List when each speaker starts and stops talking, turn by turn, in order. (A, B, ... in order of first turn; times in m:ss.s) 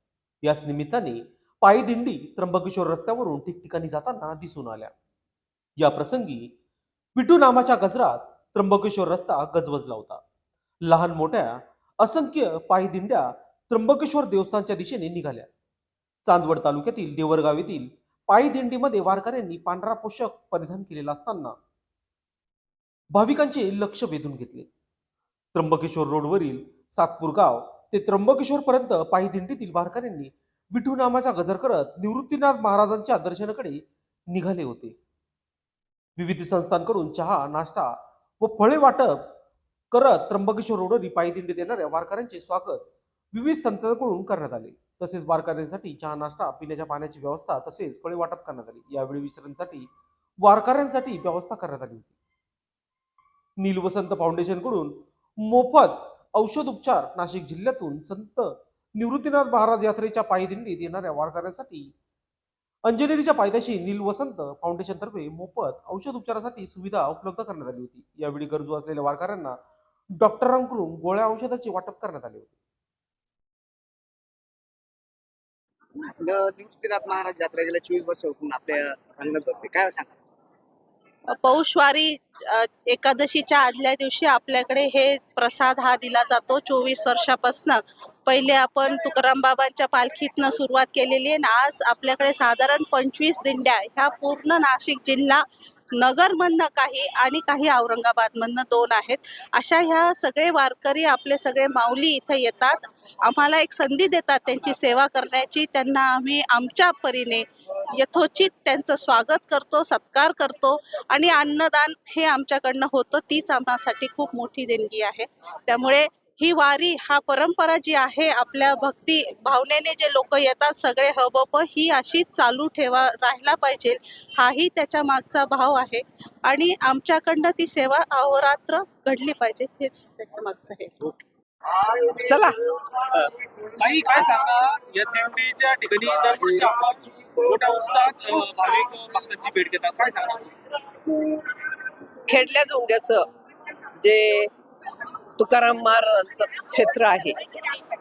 0:00.4-0:04.9 A
0:05.8-0:06.5 A
0:07.2-0:10.2 A
0:10.8-0:15.5 A
0:16.2-0:21.6 A
0:23.1-0:24.7 A
0:25.5-0:35.0 A
0:36.2-0:39.3 A
0:39.9-0:49.9 A
0:50.4-0:52.1 A
0:53.6-1:01.9 A
1:02.8-1:09.6 A
1:10.2-1:12.5 A
1:16.2-1:20.2 B
1:21.3-1:35.4 C
1:36.0-2:10.9 C
2:11.7-2:13.4 D
2:13.7-2:20.8 E
2:22.3-2:23.3 D
2:24.0-2:24.5 D
2:25.4-2:27.7 D